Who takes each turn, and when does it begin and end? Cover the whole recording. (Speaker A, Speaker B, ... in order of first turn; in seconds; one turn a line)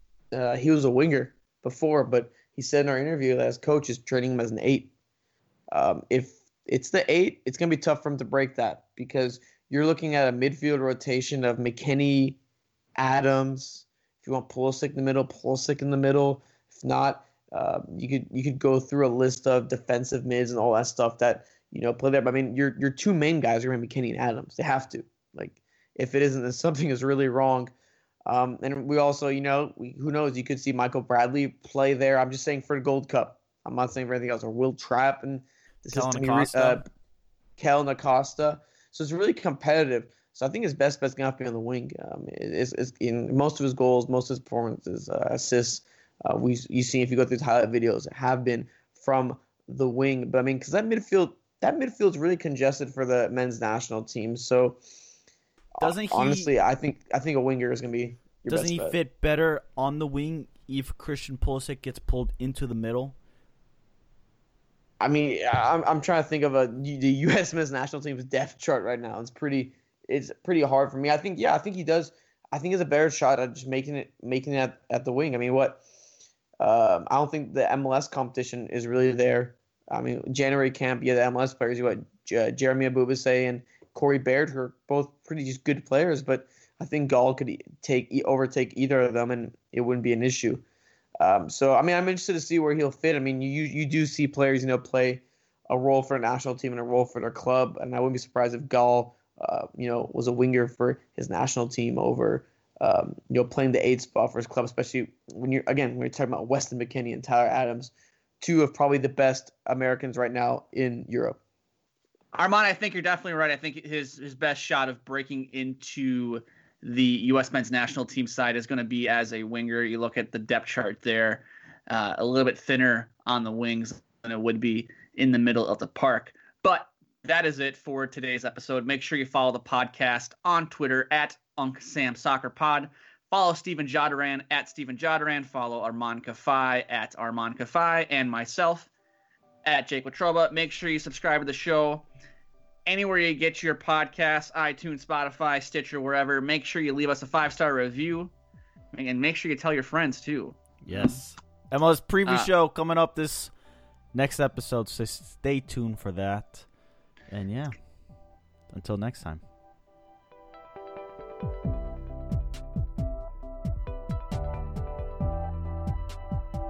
Speaker A: 0.3-4.9
Speaker A: 5.7-12.4
Speaker A: 13.0-27.7
Speaker A: 28.3-36.9
Speaker B: 35.9-36.8
Speaker A: 37.6-54.8
Speaker A: 55.8-59.0
Speaker B: 55.8-56.5
Speaker B: 58.5-63.2
Speaker A: 65.0-75.8
Speaker A: 76.6-90.6
Speaker A: 91.2-111.4
Speaker C: 112.3-138.9
Speaker C: 139.6-142.1
Speaker C: 142.9-148.3
Speaker C: 148.9-151.2
Speaker B: 150.8-153.5
Speaker C: 152.2-152.5
Speaker B: 154.1-156.7
Speaker B: 157.3-158.0
Speaker B: 158.7-159.4